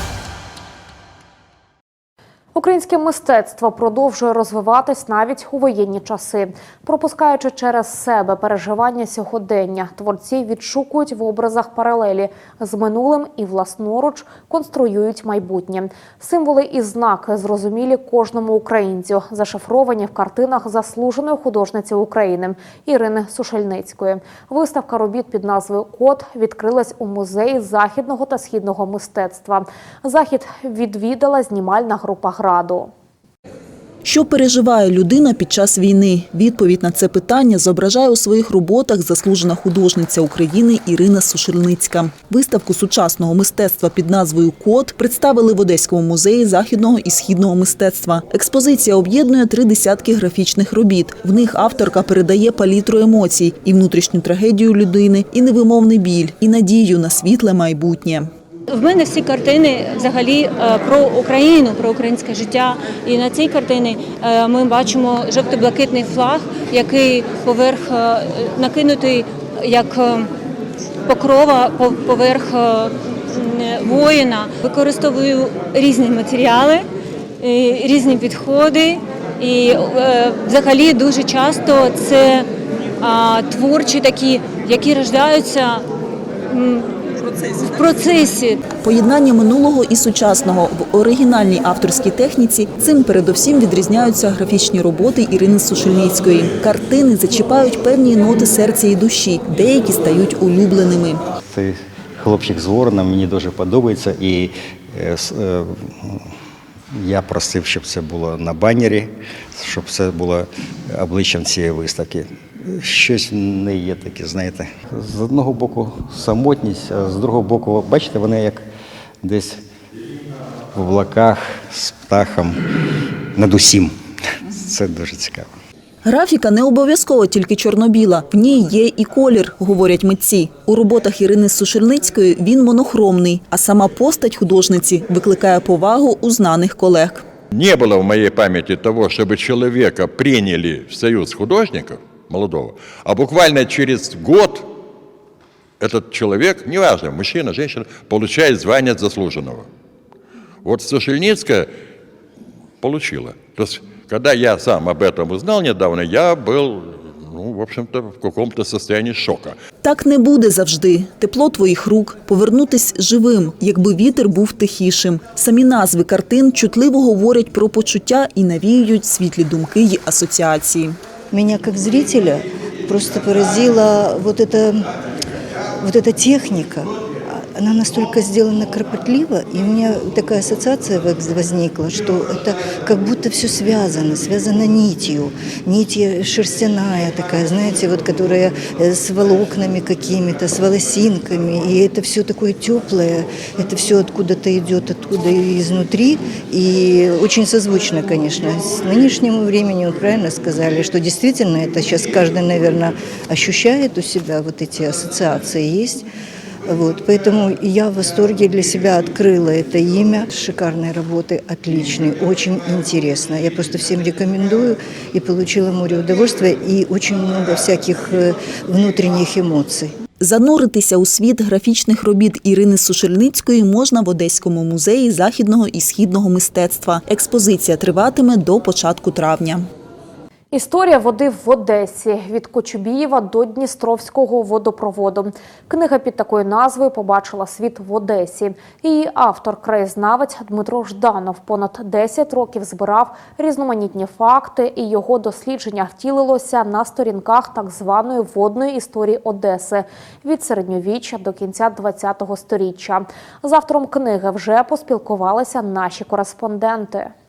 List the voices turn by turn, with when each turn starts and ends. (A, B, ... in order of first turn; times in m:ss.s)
0:02.6-0:32.9 A
0:34.0-0:58.3 B
0:58.7-1:10.3 C
1:11.0-1:16.8 C
1:17.4-1:22.5 C
1:23.0-1:25.8 C
1:26.5-1:26.9 C
1:27.6-1:28.6 C
1:28.8-1:41.2 B
1:41.5-1:46.3 D
1:46.9-1:58.6 D
1:59.2-1:59.6 D
2:00.7-2:02.6 D
2:03.4-2:05.5 D
2:06.0-2:17.2 B
2:17.5-2:24.7 E
2:25.8-2:29.7 E
2:30.6-2:31.7 E
2:32.8-2:39.6 E
2:39.8-2:51.0 B
2:51.3-2:54.9 F
2:55.8-3:26.1 F
3:26.7-3:40.0 F
3:40.2-3:49.7 B
3:50.5-4:17.1 A